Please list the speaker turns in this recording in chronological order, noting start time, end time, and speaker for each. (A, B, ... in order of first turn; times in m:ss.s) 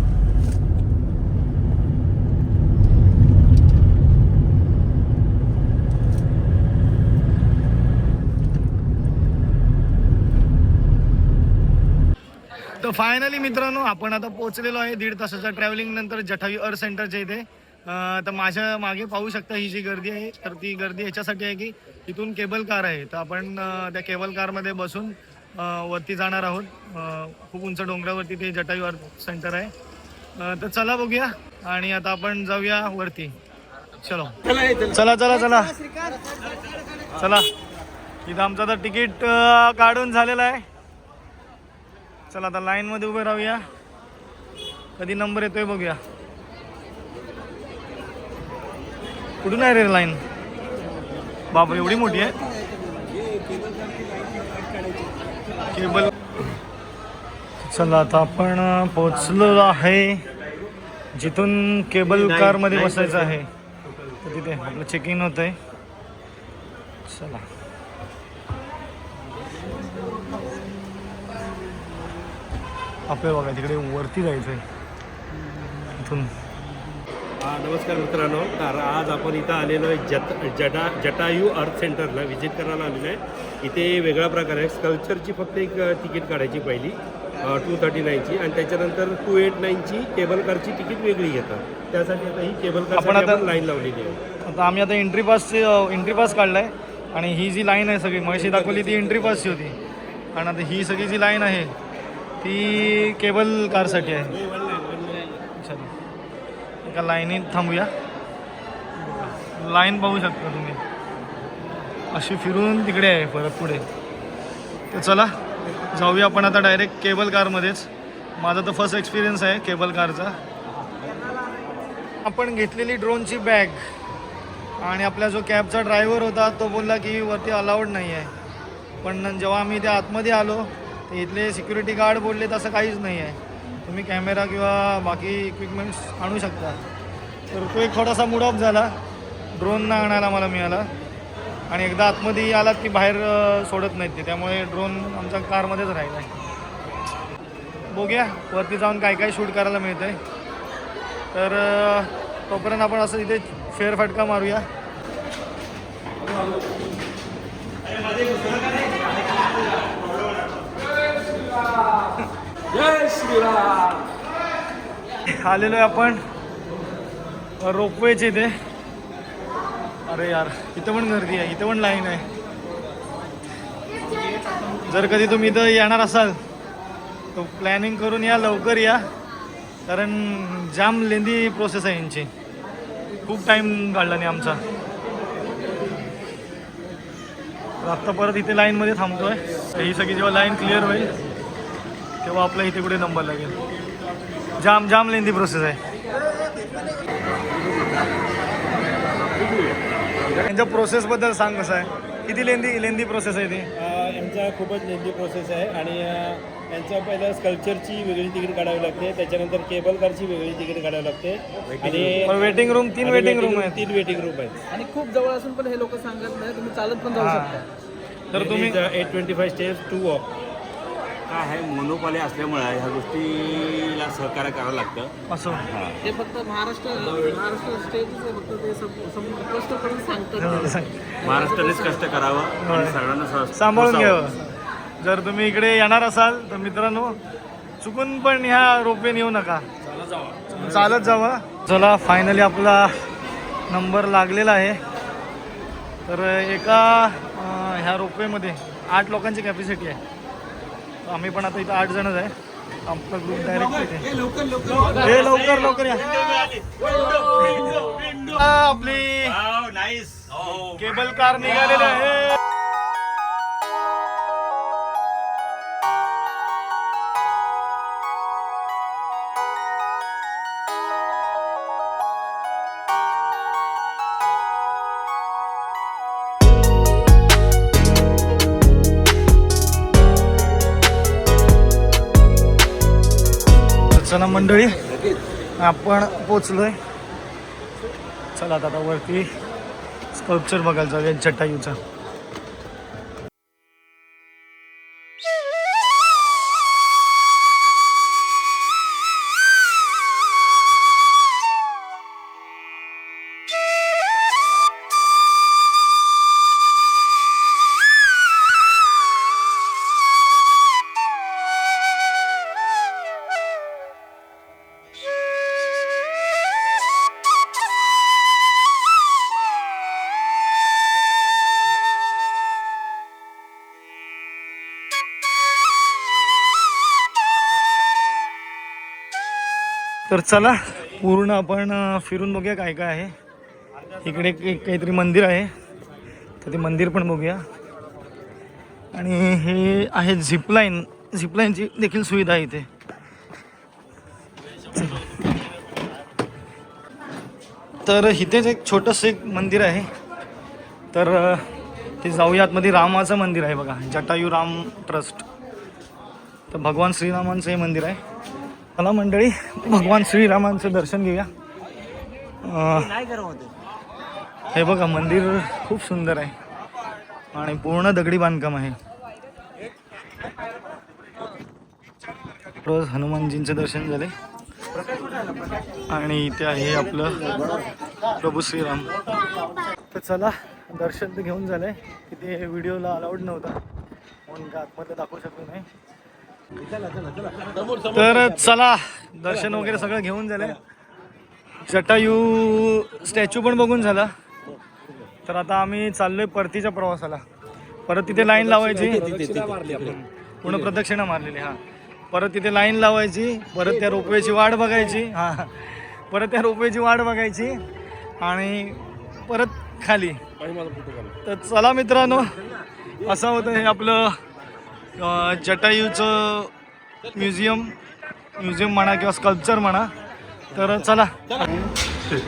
0:12.7-0:29.7 A
0:30.4-0:33.4 A
0:34.0-0:35.8 A
0:37.1-0:37.5 A
0:38.2-0:40.6 A
0:42.3-0:43.7 A
0:45.0-0:46.0 A
0:49.4-0:50.2 A
0:51.5-0:52.4 A
0:53.2-0:53.8 B
0:55.7-0:56.1 A
0:57.6-1:00.2 A
1:01.2-1:03.5 A
1:02.1-1:03.4 B
1:04.2-1:05.6 A
1:07.0-1:07.4 A
1:13.1-1:14.6 A
1:15.9-1:16.3 A
1:17.4-1:34.2 B
1:32.9-1:33.5 A
1:34.5-1:39.8 A
1:38.3-1:39.6 B
1:40.3-1:41.7 A
1:42.4-1:44.4 A
1:44.5-1:45.3 B
1:45.5-1:45.9 A
1:46.9-1:47.9 A
1:49.4-1:50.8 A
1:52.1-1:53.9 A
1:54.9-1:55.3 A
1:55.9-2:00.4 A
2:02.2-2:03.8 A
2:04.8-2:08.3 A
2:09.0-2:16.8 A
2:17.5-2:18.9 A
2:19.6-2:20.9 A
2:21.7-2:26.3 A
2:27.9-2:30.2 A
2:31.3-2:34.7 A
2:45.3-2:46.2 A
2:47.6-2:48.5 A
2:50.1-2:52.3 A
2:54.9-2:56.4 A
2:57.3-2:59.0 A
2:59.9-3:02.3 A
3:03.2-3:04.6 A
3:07.8-3:11.1 A
3:12.2-3:13.6 A
3:14.6-3:15.8 A
3:20.4-3:23.7 A
3:23.8-3:32.4 B
3:31.8-3:32.2 C
3:32.3-3:33.9 A
3:33.0-3:34.7 B
3:34.7-3:37.6 D
3:37.1-3:37.6 A
3:38.3-3:38.8 A
3:38.3-3:40.4 B
3:41.3-3:45.1 C
3:45.3-3:45.7 A
3:45.7-3:46.0 C
3:46.0-3:50.7 D
3:50.4-3:51.2 A
3:51.2-3:54.3 C
3:51.2-3:52.0 D
3:52.6-3:53.0 A
3:53.5-3:54.4 A
3:55.0-3:57.2 A
3:57.8-3:59.7 A
4:00.5-4:03.0 A
4:03.7-4:04.8 A
4:06.1-4:10.0 A
4:11.0-4:12.3 A
4:12.9-4:14.2 A
4:14.3-4:18.4 C
4:14.9-4:16.1 A
4:18.3-4:19.4 A
4:19.2-4:20.8 C
4:20.7-4:22.4 A
4:43.9-4:44.8 A
4:45.6-4:46.8 A
4:48.4-4:49.3 A
4:50.1-4:51.8 A
5:30.1-5:33.1 A
5:34.0-5:35.5 A
5:36.4-5:37.4 A
5:38.9-5:42.7 A
5:44.7-5:45.2 A
5:47.8-5:49.9 A
5:50.9-5:51.5 A
5:52.0-5:55.2 A
5:56.5-5:58.0 A
5:58.8-6:01.3 A
6:02.4-6:03.2 A
6:04.5-6:06.3 A
6:07.3-6:08.8 A
6:12.6-6:14.1 A
6:15.9-6:17.5 A
6:18.2-6:18.9 A
6:19.9-6:23.6 A
6:24.3-6:25.7 A
6:27.8-6:30.6 A
6:31.7-6:34.1 A
6:35.3-6:37.2 A
6:37.9-6:39.1 A
6:38.1-6:40.8 B
6:39.7-6:41.6 A
6:42.1-6:47.6 A
6:48.2-6:50.2 A
6:50.6-6:50.9 B
6:51.2-6:52.4 A
6:53.0-6:54.2 A
6:55.0-6:56.5 A
6:57.1-6:57.8 A
6:58.4-6:59.9 A
7:00.5-7:01.5 A